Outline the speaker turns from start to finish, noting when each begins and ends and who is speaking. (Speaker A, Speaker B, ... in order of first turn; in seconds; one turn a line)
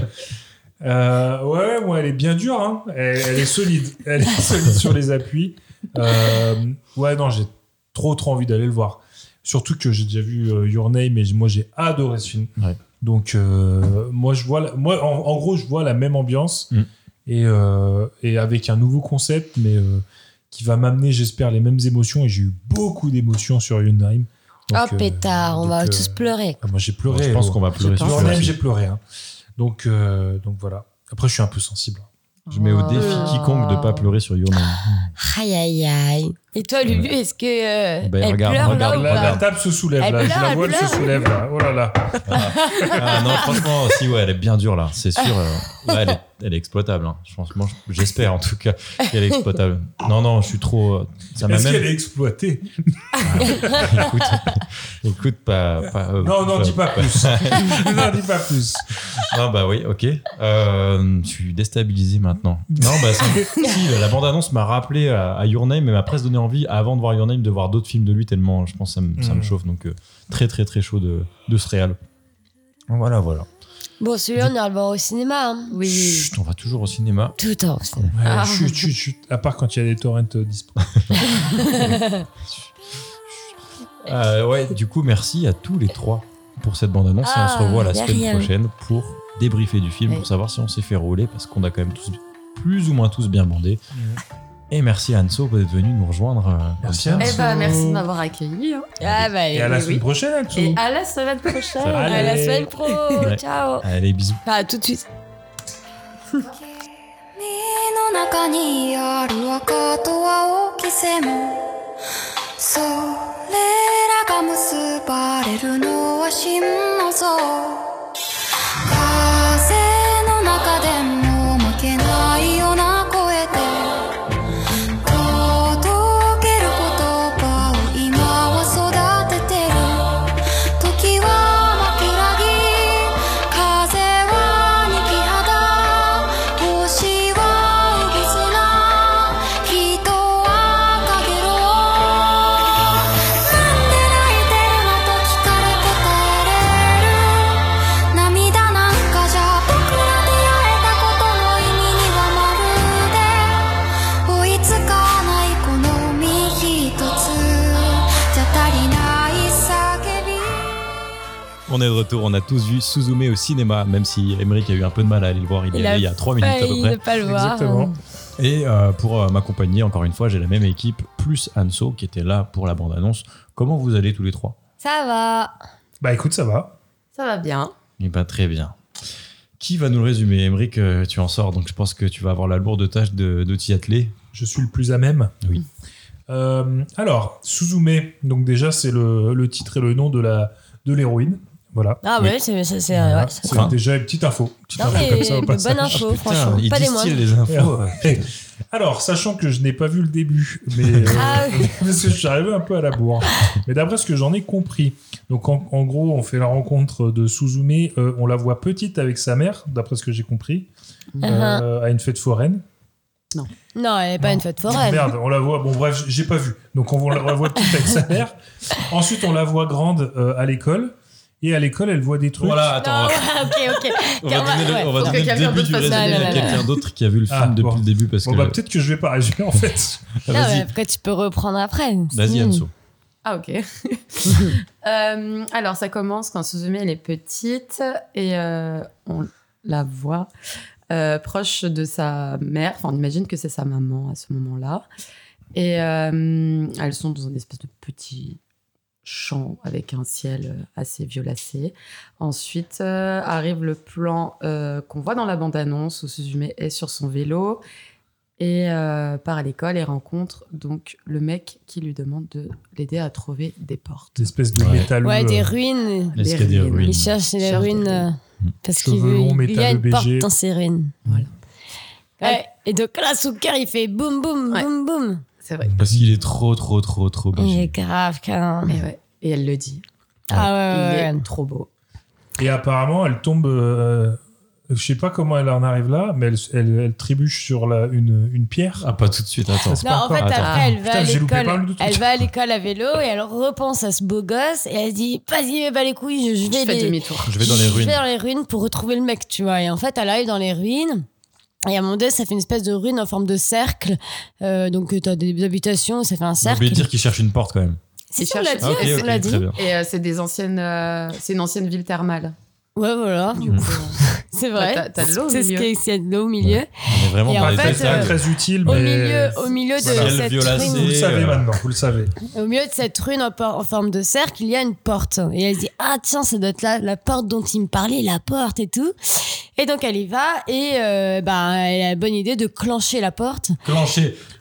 Speaker A: 0.8-16.7
Speaker A: 17.2-29.0
Speaker B: 24.7-26.6
Speaker C: 27.1-28.6
Speaker D: 27.7-28.4
Speaker A: 29.6-32.1
Speaker D: 32.5-34.1
Speaker C: 32.5-35.1
Speaker B: 32.9-33.4
Speaker B: 35.2-39.4
Speaker C: 36.9-37.1
Speaker C: 38.0-39.5
Speaker A: 38.6-42.9
Speaker B: 40.0-41.3
Speaker C: 42.2-51.9
Speaker B: 42.6-43.3
Speaker A: 51.4-54.1
Speaker C: 53.2-58.2
Speaker A: 56.2-59.0
Speaker C: 59.2-72.0
Speaker A: 62.7-63.6
Speaker A: 69.2-69.5
Speaker C: 72.9-73.5
Speaker B: 74.0-75.7
Speaker D: 75.7-76.3
Speaker C: 75.8-77.3
Speaker B: 77.4-78.1
Speaker A: 78.2-81.9
Speaker D: 78.2-78.9
Speaker B: 81.6-82.2
Speaker C: 84.0-93.8
Speaker B: 87.2-88.5
Speaker A: 93.9-94.2
Speaker C: 94.7-97.5
Speaker A: 96.8-98.0
Speaker D: 97.2-98.9
Speaker C: 99.0-99.3
Speaker B: 99.0-99.8
Speaker A: 99.5-100.8
Speaker D: 99.6-102.3
Speaker C: 101.8-102.3
Speaker A: 101.9-102.7
Speaker B: 102.0-103.8
Speaker C: 103.2-104.4
Speaker B: 104.5-105.0
Speaker E: 106.4-106.7
Speaker E: 107.3-111.7
Speaker E: 112.6-117.9
Speaker E: 118.8-124.1
Speaker E: 125.0-142.8
Speaker E: 143.4-147.4
Speaker E: 148.1-153.7
Speaker E: 154.2-160.8
Speaker C: 161.7-167.0
Speaker B: 165.7-167.9
Speaker A: 167.2-167.9
Speaker C: 168.4-174.6
Speaker B: 174.8-175.6
Speaker A: 176.0-176.7
Speaker D: 177.1-177.7
Speaker C: 178.0-178.8
Speaker C: 179.6-184.2
Speaker A: 184.3-185.3
Speaker A: 186.3-192.0
Speaker B: 192.0-193.7
Speaker A: 192.9-196.1
Speaker C: 193.4-193.8
Speaker B: 194.8-197.2
Speaker C: 194.8-197.8
Speaker A: 197.5-210.7
Speaker C: 200.8-201.2
Speaker B: 201.1-201.7
Speaker B: 211.2-211.6
Speaker A: 211.2-212.6
Speaker B: 213.7-215.1
Speaker A: 214.2-222.8
Speaker C: 222.4-228.6
Speaker B: 222.8-225.2
Speaker D: 224.9-226.7
Speaker B: 225.8-226.6
Speaker A: 227.3-230.2
Speaker C: 230.2-230.7
Speaker B: 230.3-232.6
Speaker C: 232.1-232.7
Speaker D: 232.3-232.6
Speaker D: 233.2-240.3
Speaker D: 240.9-244.8
Speaker D: 245.5-248.4
Speaker D: 249.0-257.6
Speaker D: 258.4-264.3
Speaker A: 264.2-265.5
Speaker C: 264.5-264.9
Speaker B: 265.0-266.2
Speaker C: 266.2-267.1
Speaker D: 266.2-268.1
Speaker B: 266.9-270.9
Speaker A: 268.8-270.3
Speaker B: 272.2-275.2
Speaker D: 275.4-275.8
Speaker A: 275.6-276.1
Speaker C: 275.8-277.7
Speaker B: 277.4-278.8
Speaker D: 278.7-279.8
Speaker B: 280.3-281.2
Speaker D: 280.7-281.7
Speaker A: 282.4-288.9
Speaker C: 288.8-290.6
Speaker A: 289.6-292.1
Speaker B: 289.8-301.1
Speaker D: 296.5-297.3
Speaker C: 297.2-298.0
Speaker B: 301.7-306.9
Speaker C: 306.4-307.8
Speaker B: 308.1-309.4
Speaker D: 308.2-312.3
Speaker C: 308.6-309.6
Speaker B: 312.8-316.7
Speaker D: 313.4-314.0
Speaker D: 314.6-315.7
Speaker C: 316.4-318.8
Speaker B: 317.2-318.1
Speaker A: 317.3-322.1
Speaker B: 318.6-320.9
Speaker C: 319.8-321.5
Speaker B: 322.3-333.6
Speaker C: 333.6-334.2